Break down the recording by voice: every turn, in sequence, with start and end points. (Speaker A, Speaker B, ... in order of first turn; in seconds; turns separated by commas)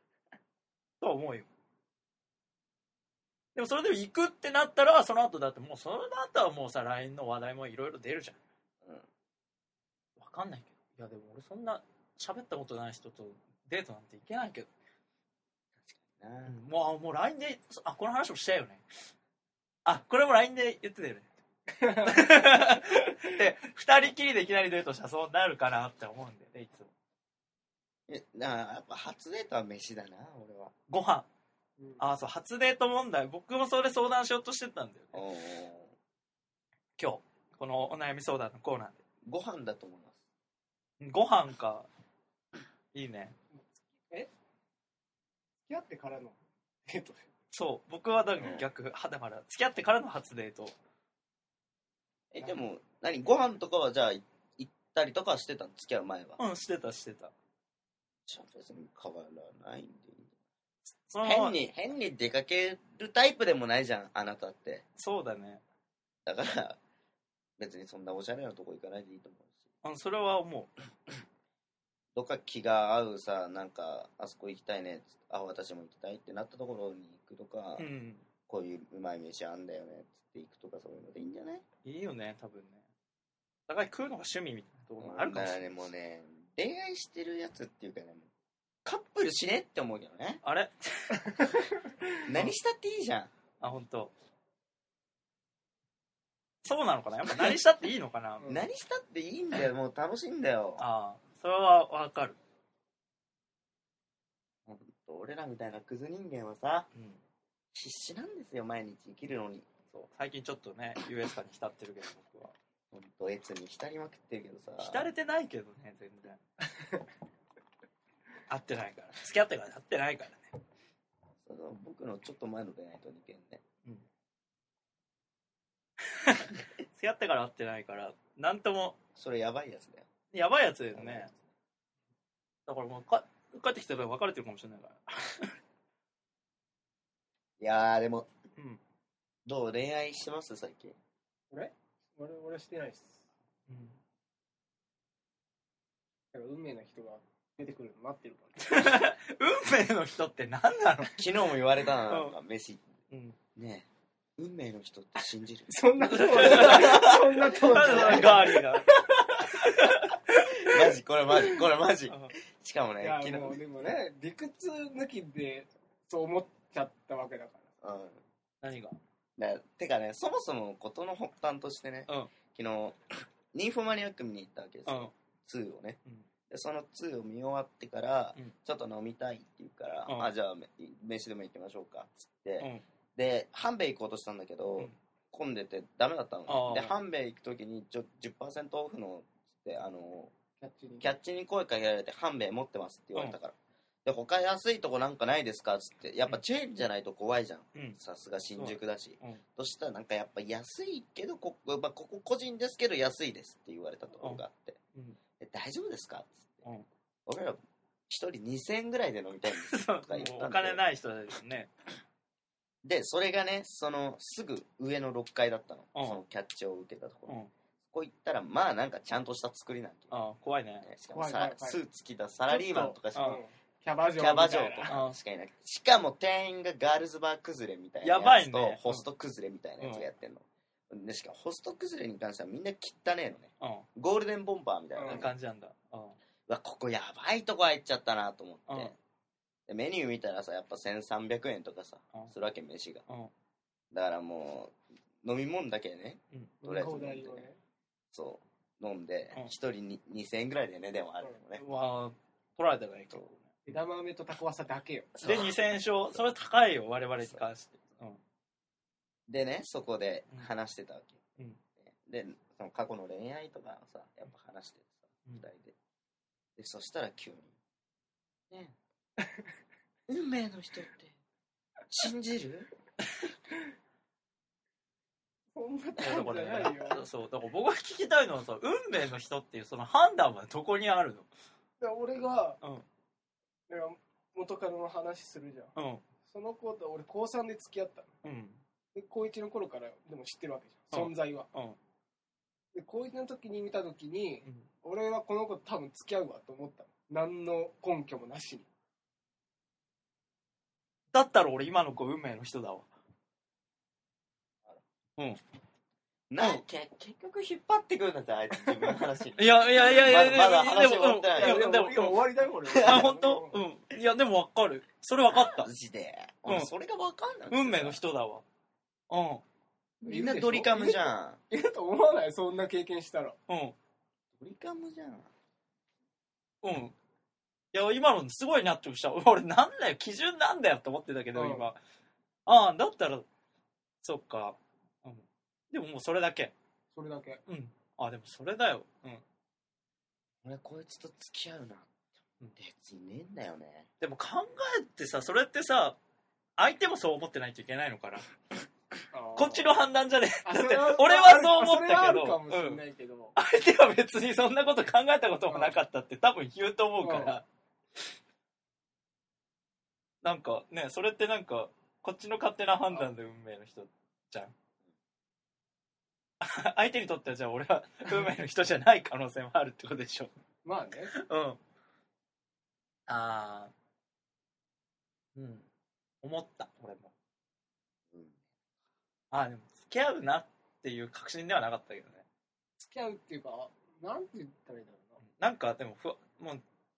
Speaker A: 1.0-1.5, Speaker A: 3.5-8.4, Speaker A: 10.2-14.7, Speaker B: 15.8-16.6, Speaker A: 16.4-18.8, Speaker A: 19.8-21.3, Speaker C: 21.8-22.5, Speaker A: 21.9-26.9, Speaker B: 28.1-30.7, Speaker A: 30.9-31.3, Speaker A: 32.0-35.2, Speaker B: 35.1-35.9, Speaker A: 37.0-39.0, Speaker B: 39.2-40.2, Speaker A: 41.0-41.9, Speaker A: 42.9-43.3, Speaker C: 45.7-47.2, Speaker A: 47.5-50.7, Speaker B: 48.4-48.6, Speaker B: 52.3-56.4, Speaker A: 56.4-57.3, Speaker B: 58.3-60.3, Speaker A: 61.0-61.6, Speaker B: 61.2-64.8, Speaker A: 65.0-65.6, Speaker B: 66.2-66.8, Speaker B: 67.6-69.7, Speaker A: 69.8-70.7, Speaker B: 72.1-77.9, Speaker A: 77.8-78.2, Speaker B: 78.5-81.6, Speaker A: 81.8-82.8, Speaker A: 83.7-85.6, Speaker B: 85.0-88.3, Speaker B: 88.8-90.4, Speaker A: 90.4-91.4, Speaker B: 92.2-93.3, Speaker A: 93.6-94.1, Speaker A: 96.6-98.5, Speaker B: 98.5-100.8, Speaker A: 100.8-102.4, Speaker B: 104.7-106.9, Speaker A: 106.9-107.2, Speaker B: 107.7-109.7, Speaker A: 109.9-112.5, Speaker B: 112.9-115.1, Speaker A: 114.8-116.4, Speaker A: 118.5-120.5, Speaker B: 121.4-123.6, Speaker A: 126.1-129.0, Speaker B: 129.2-130.1, Speaker A: 130.3-131.3, Speaker B: 130.9-131.3, Speaker A: 132.7-135.6, Speaker B: 137.6-138.3, Speaker A: 138.6-138.8, Speaker B: 139.4-140.9, Speaker C: 141.5-143.2, Speaker A: 143.7-144.0, Speaker C: 146.3-148.9, Speaker A: 148.6-151.2, Speaker B: 151.1-152.9, Speaker A: 152.1-152.4, Speaker A: 153.1-153.4, Speaker B: 153.6-153.9, Speaker B: 154.4-155.7, Speaker C: 155.7-158.8, Speaker A: 156.0-160.7, Speaker B: 156.3-158.5, Speaker B: 160.6-163.9, Speaker A: 162.1-162.3, Speaker C: 163.0-167.7, Speaker B: 167.8-168.2, Speaker A: 168.6-169.0, Speaker B: 169.4-173.0, Speaker A: 172.1-172.3, Speaker B: 173.5-176.0, Speaker A: 174.8-175.1, Speaker B: 176.5-190.3, Speaker A: 180.1-180.3, Speaker A: 182.6-182.8, Speaker A: 186.5-186.9, Speaker C: 190.6-191.1, Speaker B: 191.0-204.8, Speaker A: 198.6-199.4, Speaker B: 205.4-206.7, Speaker B: 207.3-207.6, Speaker B: 208.1-210.8, Speaker A: 209.5-211.7, Speaker B: 212.8-220.2, Speaker A: 215.9-216.2, Speaker A: 220.1-220.9, Speaker B: 220.8-223.3, Speaker C: 221.1-221.8, Speaker C: 222.5-224.9, Speaker A: 223.1-223.4, Speaker B: 224.2-235.3, Speaker A: 224.9-225.2, Speaker A: 228.0-229.1, Speaker A: 229.8-230.1, Speaker A: 233.6-233.8, Speaker C: 234.9-235.3, Speaker A: 235.0-236.2, Speaker B: 236.5-238.9, Speaker A: 238.7-238.9, Speaker B: 239.7-243.0, Speaker B: 243.9-247.5, Speaker C: 246.6-247.6, Speaker B: 248.1-251.6, Speaker A: 251.5-253.5, Speaker C: 253.7-255.4, Speaker A: 255.2-258.2, Speaker B: 255.2-255.5, Speaker B: 259.3-261.2, Speaker B: 261.8-265.7, Speaker B: 266.6-267.5, Speaker B: 268.5-268.8, Speaker B: 270.1-271.1, Speaker B: 271.9-272.7, Speaker C: 275.5-277.1, Speaker A: 276.0-281.3, Speaker C: 281.8-282.6, Speaker C: 283.7-285.7, Speaker A: 285.8-286.0, Speaker C: 286.3-288.1, Speaker A: 288.2-288.6, Speaker C: 288.9-291.5, Speaker A: 290.9-291.8, Speaker C: 292.7-298.6, Speaker A: 301.1-302.9, Speaker B: 306.3-311.7, Speaker A: 309.4-312.2, Speaker C: 310.9-313.6, Speaker B: 312.7-313.1, Speaker A: 312.8-315.7, Speaker B: 315.3-318.0, Speaker A: 316.4-316.7, Speaker A: 317.5-318.4, Speaker A: 319.1-319.4, Speaker B: 320.0-321.4, Speaker C: 320.0-323.4, Speaker A: 323.5-323.7, Speaker B: 324.3-325.3, Speaker A: 326.6-326.9, Speaker A: 327.7-331.8, Speaker C: 331.3-331.7, Speaker A: 332.4-333.2, Speaker A: 334.0-336.5, Speaker C: 336.9-337.4, Speaker A: 337.5-339.2, Speaker B: 340.4-341.9, Speaker B: 342.5-343.9, Speaker A: 344.0-346.0, Speaker A: 346.6-348.2, Speaker C: 349.1-349.7, Speaker A: 349.4-352.8, Speaker C: 350.4-353.4, Speaker A: 353.4-357.4, Speaker C: 355.5-355.7, Speaker C: 357.0-357.4, Speaker A: 360.2-364.5, Speaker A: 366.4-370.3, Speaker C: 370.6-371.1, Speaker A: 371.1-371.6, Speaker A: 373.1-373.7, Speaker A: 375.3-375.7, Speaker A: 376.2-377.1, Speaker B: 378.1-378.4, Speaker A: 379.3-382.2, Speaker C: 382.8-385.2, Speaker A: 385.2-386.6